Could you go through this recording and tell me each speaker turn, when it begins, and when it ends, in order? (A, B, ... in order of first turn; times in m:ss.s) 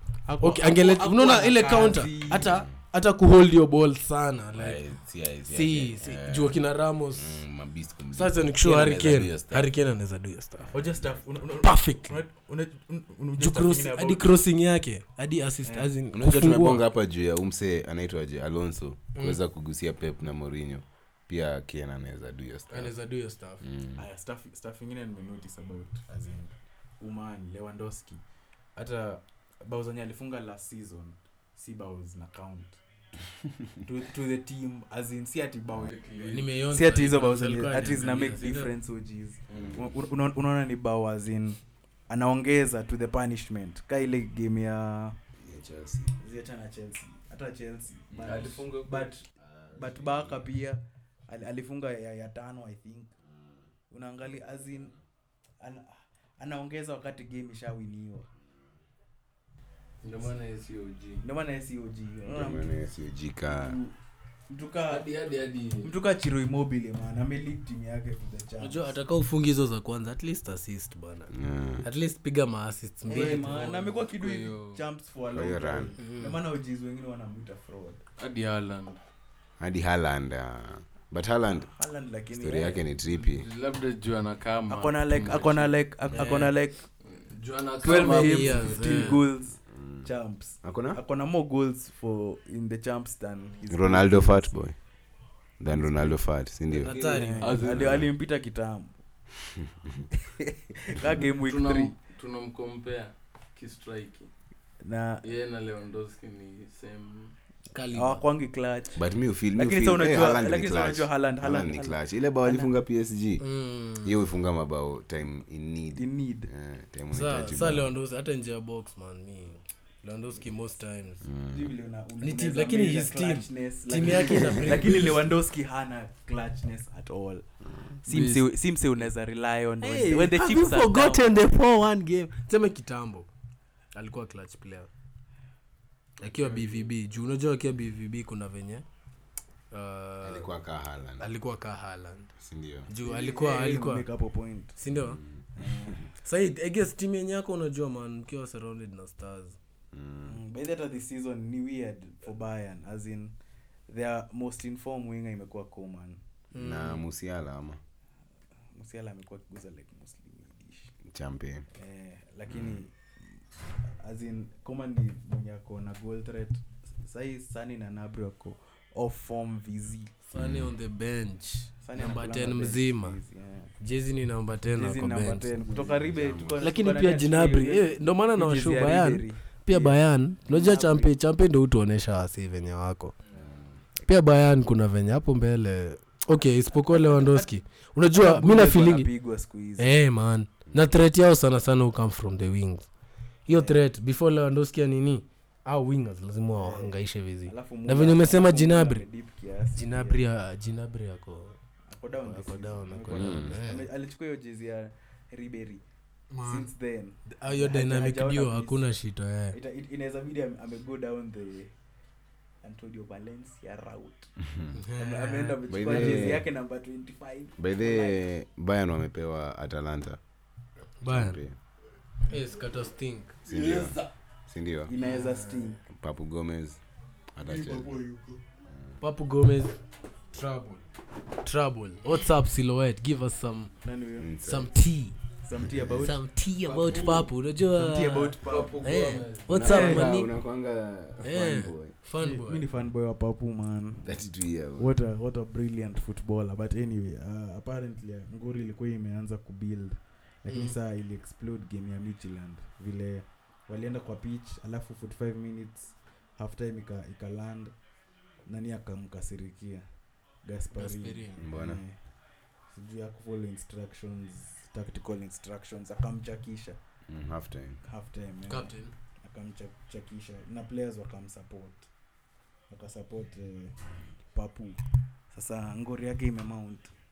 0:00.2-0:02.6 A
0:00.4-0:04.8 B
0:02.4-0:02.7 C
0:04.5-0:06.6 C
0:05.5-0:07.4 B
0:07.1-0:09.7 C
0:08.1-0:10.7 B
0:10.7-0:14.3 A
0:10.7-0:11.0 C
0:11.6-0:12.2 B
0:13.4-0:16.8 B
0:16.1-0:22.9 C
0:22.7-0:23.6 B
0:23.6-0:24.0 C
0:24.0-0:28.2 A
0:28.8-0:32.8 A
0:33.8-0:36.0 A
0:35.8-0:36.5 D
0:36.3-0:38.7 B
0:36.6-0:45.2 A
0:39.5-0:39.9 C
0:45.4-0:46.1 C
0:46.2-0:53.1 A
0:48.1-0:48.5 C
0:48.2-0:49.1 D
0:49.4-0:50.4 C
0:53.3-0:53.6 C
0:53.9-0:54.9 A
0:55.6-0:58.3 A
1:00.0-1:01.2 D
1:01.2-1:02.8 A
1:02.3-1:03.8 C
1:03.5-1:03.9 A
1:04.5-1:05.1 A
1:04.8-1:05.9 D
1:05.8-1:08.9 A
1:08.6-1:13.8 B
1:11.3-1:11.8 C
1:13.1-1:18.0 A
1:13.1-1:14.8 D
1:15.3-1:15.9 C
1:16.0-1:16.4 B
1:18.2-1:19.0 D
1:19.6-1:21.7 C
1:21.5-1:22.8 A
1:22.3-1:23.5 C
1:23.1-1:26.4 D
1:24.7-1:26.8 A
1:26.1-1:26.5 B
1:27.1-1:29.1 D
1:27.8-1:34.6 A
1:27.8-1:29.2 B
1:29.7-1:30.1 C
1:30.6-1:31.0 C
1:33.7-1:34.8 C
1:35.6-1:37.0 C
1:35.6-1:38.9 A
1:36.8-1:37.6 B
1:37.0-1:38.0 D
1:37.6-1:38.1 C
1:40.4-1:41.9 A
1:41.4-1:44.3 D
1:44.8-1:45.2 A
1:45.2-1:47.3 D
1:47.7-1:48.2 B
1:47.9-1:52.7 A
1:48.9-1:53.4 C
1:53.4-1:54.1 B
1:54.0-1:57.9 C
1:55.9-1:56.5 A
1:57.1-2:01.2 B
2:01.2-2:01.7 C
2:01.5-2:07.4 A
2:02.2-2:05.3 B
2:08.0-2:11.3 A
2:08.0-2:08.4 D
2:09.8-2:13.3 B
2:13.9-2:14.9 B
2:16.2-2:18.8 B
2:16.4-2:16.8 D
2:19.7-2:20.5 B
2:20.2-2:21.3 C
2:21.2-2:22.3 B
2:22.4-2:22.9 C
2:22.9-2:24.1 B
2:23.0-2:24.8 A
2:24.8-2:25.2 B
2:24.9-2:25.4 C
2:25.6-2:26.0 A
2:26.2-2:29.6 B
2:29.9-2:30.4 C
2:30.2-2:33.3 A
2:33.9-2:36.2 A
2:36.5-2:37.0 B
2:36.6-2:37.8 C
2:38.7-2:41.0 A
2:41.0-2:41.6 C
2:41.7-2:42.9 A
2:42.5-2:42.8 C
2:44.0-2:50.1 A
2:50.3-2:53.2 B
2:50.3-2:50.7 C
2:51.8-2:53.7 A
2:53.8-2:55.5 B
2:54.8-3:01.1 A
2:55.7-2:56.6 C
2:56.6-3:03.1 B
3:03.3-3:03.8 C
3:04.0-3:09.1 B
3:06.8-3:07.5 A
3:08.1-3:09.9 A
3:09.8-3:12.9 B
3:13.4-3:19.0 B
3:13.5-3:13.8 A
3:16.6-3:20.2 A
3:19.8-3:21.6 B
3:21.9-3:25.8 A
3:22.2-3:23.8 B
3:23.1-3:23.6 C
3:26.3-3:26.7 B
3:26.4-3:28.8 A
3:27.3-3:29.6 B
3:29.5-3:31.7 A
3:32.6-3:34.3 A
3:34.4-3:34.7 C
3:34.7-3:36.4 B
3:35.0-3:38.2 A
3:35.7-3:36.5 C
3:37.6-3:40.2 C
3:41.0-3:41.4 B
3:41.0-3:41.5 C
3:42.3-3:43.4 B
3:43.4-3:44.9 C
3:43.5-3:44.0 A
3:44.8-3:45.8 A
3:45.0-3:45.8 B
3:45.9-3:46.8 C
3:47.3-3:47.9 C
3:47.4-3:48.4 A
3:49.0-3:49.8 B
3:50.3-3:50.8 B
3:51.4-3:53.7 B
3:53.8-3:54.3 A
3:54.2-3:54.7 C
3:54.4-3:55.2 B
3:55.4-4:00.1 A
3:55.7-3:56.1 C
3:56.0-4:00.3 B
3:56.8-3:57.3 C
3:58.4-3:59.6 D
3:59.5-4:01.9 C
4:01.2-4:02.6 B
4:02.2-4:17.7 A
4:04.0-4:04.9 C
4:10.5-4:10.7 B
4:18.4-4:19.8 A
4:20.4-4:22.0 A
4:20.7-4:21.4 B
4:21.4-4:21.8 C
4:22.7-4:26.8 A
4:27.1-4:27.8 C
4:27.8-4:31.8 A
4:28.5-4:28.9 B
4:32.7-4:34.8 A
4:35.3-4:36.9 A